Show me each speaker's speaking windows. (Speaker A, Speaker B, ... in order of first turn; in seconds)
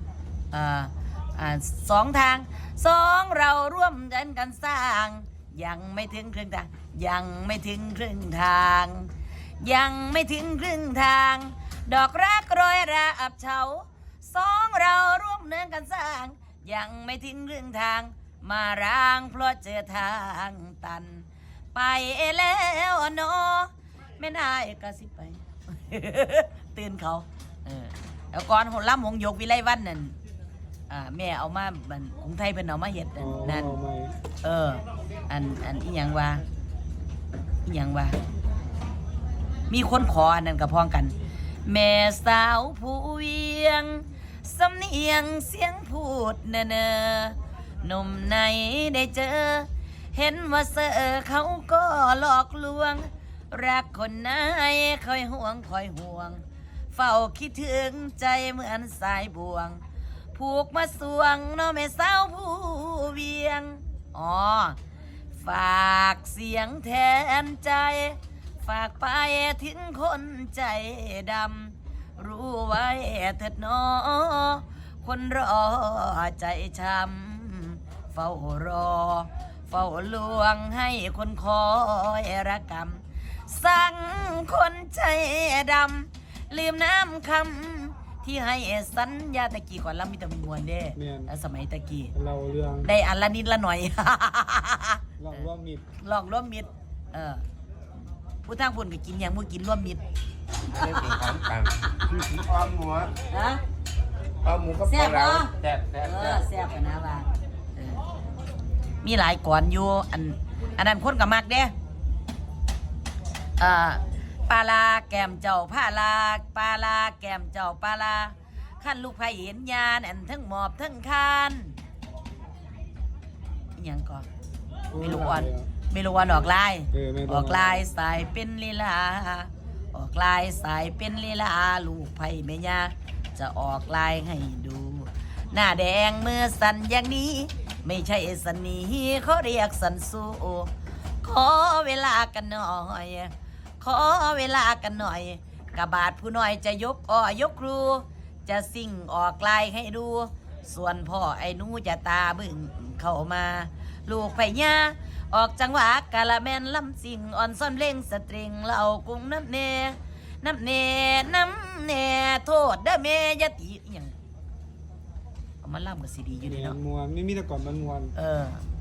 Speaker A: 0.5-30.2, 30.9-33.8, 34.4-36.4, 37.6-38.2, 39.7-59.8, 60.3-64.8, 65.3-92.1, 92.8-95.5, 96.0-97.4, 98.4-100.0, 100.7-102.0, 103.3-103.6, 104.8-108.0, 109.0-111.7, 113.6-121.8, 123.8-124.3, 125.0-140.7, 141.2-164.1, 165.6-166.8, 168.1-168.6
Speaker B: 33.2-34.1, 91.0-91.3, 92.1-92.9, 95.2-95.8, 124.9-125.7, 126.9-127.8, 166.4-168.1
Speaker C: 100.7-103.1, 104.4-106.4